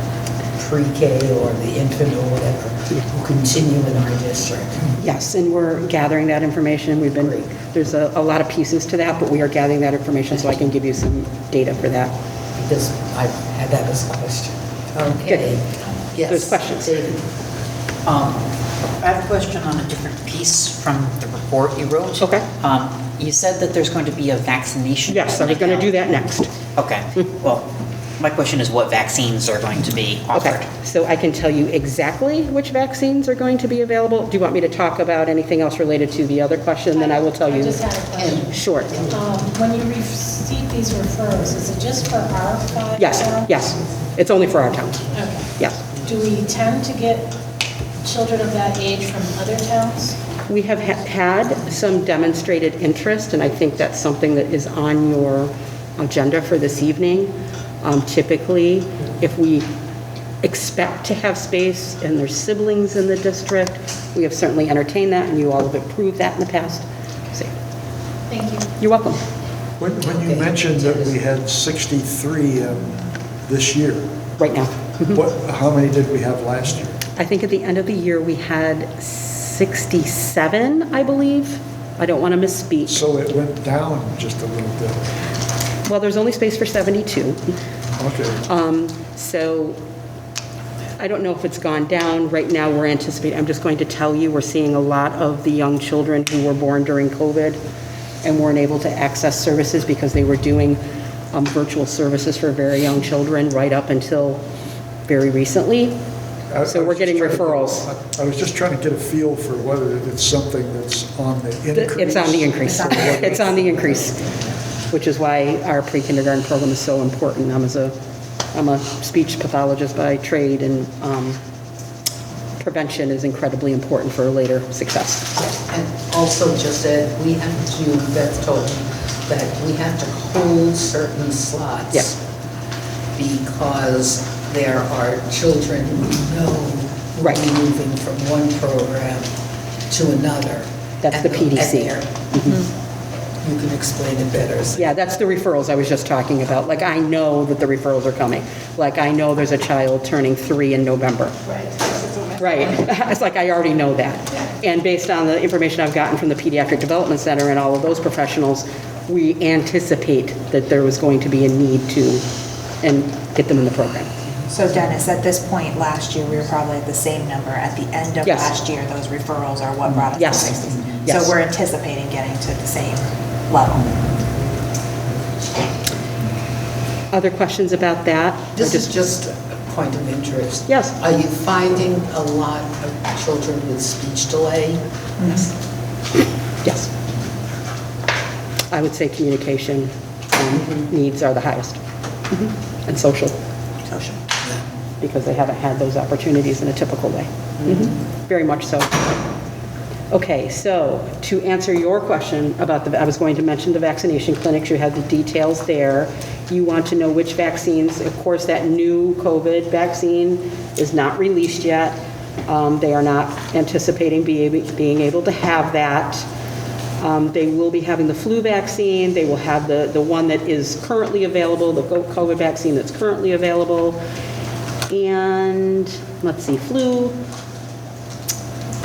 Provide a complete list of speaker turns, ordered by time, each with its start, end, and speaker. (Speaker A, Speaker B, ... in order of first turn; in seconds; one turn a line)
Speaker A: 0.6-4.9
Speaker B: 5.0-12.1
Speaker A: 12.6-17.2
Speaker B: 16.2-17.0
Speaker C: 18.1-18.3
Speaker C: 19.0-26.0
Speaker B: 22.2-22.5
Speaker B: 25.1-26.5
Speaker C: 26.7-27.7
Speaker C: 28.2-30.7
Speaker B: 30.3-37.8
Speaker D: 36.9-43.7
Speaker A: 38.1-39.2
Speaker B: 38.4-39.0
Speaker B: 43.0-46.0
Speaker D: 45.1-47.3
Speaker D: 48.0-50.1
Speaker B: 50.5-59.7
Speaker B: 60.4-67.5
Speaker D: 68.3-68.7
Speaker B: 68.8-69.2
Speaker E: 69.8-74.1
Speaker A: 70.0-71.1
Speaker B: 74.4-75.2
Speaker E: 75.1-77.0
Speaker B: 77.2-83.0
Speaker E: 82.9-85.1
Speaker B: 85.8-87.4
Speaker E: 88.0-88.4
Speaker B: 88.5-89.8
Speaker B: 91.0-97.6
Speaker B: 98.2-100.8
Speaker B: 101.3-104.4
Speaker B: 105.1-106.0
Speaker E: 106.5-113.6
Speaker B: 106.7-107.9
Speaker B: 111.7-114.2
Speaker F: 112.6-113.7
Speaker B: 114.9-117.9
Speaker B: 118.5-121.4
Speaker B: 122.6-125.4
Speaker A: 125.6-132.2
Speaker A: 133.1-139.3
Speaker A: 139.9-142.7
Speaker B: 141.0-142.5
Speaker A: 143.4-144.9
Speaker B: 144.8-151.3
Speaker B: 152.4-162.2
Speaker B: 162.8-164.1
Speaker F: 164.5-173.9
Speaker B: 168.2-168.5
Speaker B: 170.1-171.3
Speaker B: 177.1-178.9
Speaker A: 178.6-185.4
Speaker B: 180.7-180.9
Speaker B: 188.7-193.4
Speaker B: 193.9-194.2
Speaker B: 195.0-199.1
Speaker B: 200.1-216.3
Speaker B: 217.0-224.0
Speaker B: 224.9-227.2